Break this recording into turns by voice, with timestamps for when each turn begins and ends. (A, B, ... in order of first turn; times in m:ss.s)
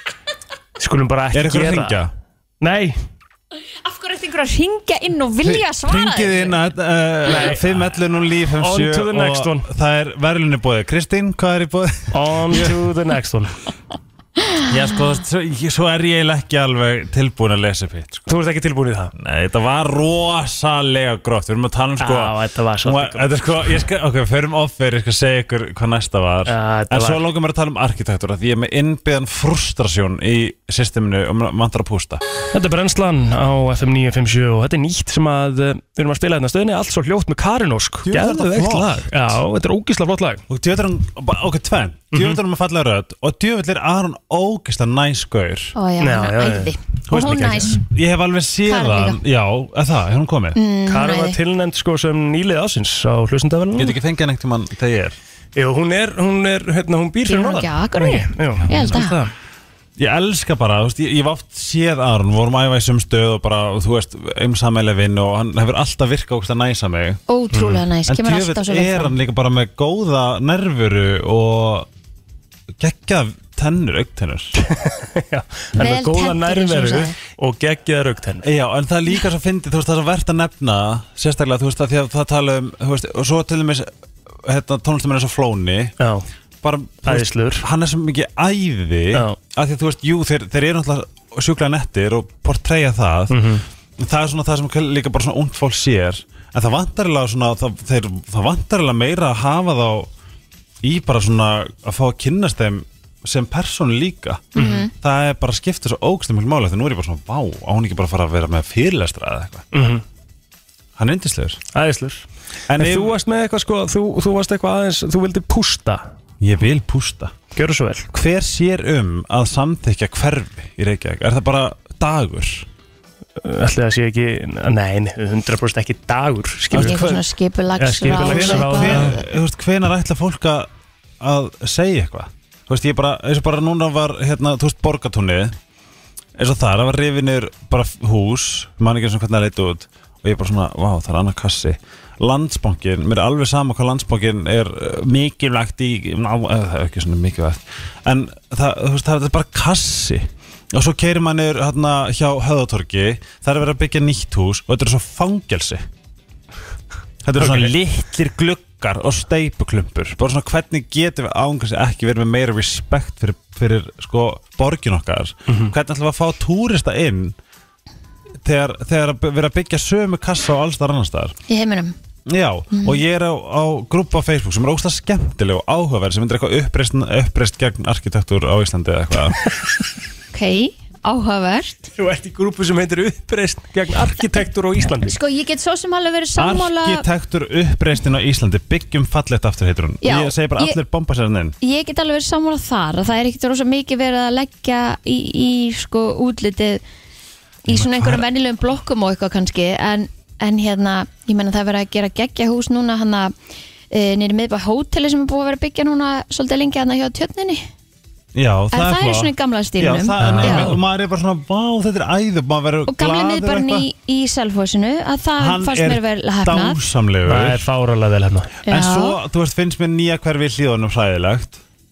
0:00.8-0:02.0 A
0:01.3-0:02.1 B
0:02.6-0:03.0 A
0:03.8-0:06.5 C
0:05.4-0:12.8 B
0:07.3-0:07.7 A
0:08.6-0:09.7 A
0:12.1-0:13.5 A
0:14.6-0:18.3 B
0:18.3-0:19.1 A
0:19.2-0:32.2 B
0:22.0-0:23.6 A
0:26.4-0:27.2 A
0:32.5-0:40.4 A
0:38.0-0:39.1 B
0:40.5-0:45.7 B
0:42.1-0:42.4 A
0:45.7-0:47.8 C
0:46.0-0:46.7 A
0:47.1-0:50.6 B
0:48.6-0:49.2 C
0:50.5-0:51.4 C
0:50.9-0:54.0 A
0:53.8-0:55.2 B
0:55.6-0:59.2 A
0:57.2-0:59.1 C
0:58.6-0:59.3 B
1:00.0-1:07.2 B
1:07.3-1:09.1 C
1:07.5-1:07.8 A
1:08.1-1:11.9 B
1:12.8-1:14.6 B
1:14.7-1:18.5 A
1:15.8-1:17.1 C
1:18.4-1:23.9 B
1:24.4-1:25.9 B
1:26.0-1:26.2 A
1:26.6-1:33.5 B
1:27.0-1:27.6 A
1:33.3-1:33.6 A
1:34.0-1:40.1 B
1:40.8-1:49.6 B
1:44.5-1:44.9 C
1:44.6-1:44.8 A
1:49.7-1:50.0 A
1:51.0-1:51.6 B
1:51.7-1:56.0 A
1:52.7-1:53.2 B
1:56.4-1:57.4 B
1:57.5-1:58.1 A
1:58.1-2:02.6 B
2:03.4-2:07.0 A
2:06.7-2:07.2 B
2:06.7-2:09.2 C
2:07.8-2:09.2 A
2:08.0-2:10.7 B
2:11.2-2:15.6 B
2:16.4-2:35.8 B
2:37.2-2:47.4 B
2:37.4-2:37.7 A
2:45.5-2:45.7 A
2:48.4-2:51.4 B
2:51.5-2:51.9 C
2:52.3-2:59.4 B
2:52.7-2:53.0 C
3:00.3-3:01.9 C
3:02.0-3:05.2 A
3:05.0-3:07.0 C
3:06.4-3:11.5 B
3:10.0-3:10.8 C
3:11.6-3:16.8 C
3:17.6-3:23.3 C
3:17.7-3:18.2 B
3:23.9-3:27.6 C
3:28.3-3:33.9 B
3:28.7-3:30.7 C
3:30.2-3:30.8 A
3:32.9-3:36.8 C
3:35.4-3:37.6 B
3:37.2-3:38.5 A
3:38.6-3:41.6 B
3:38.6-3:39.2 C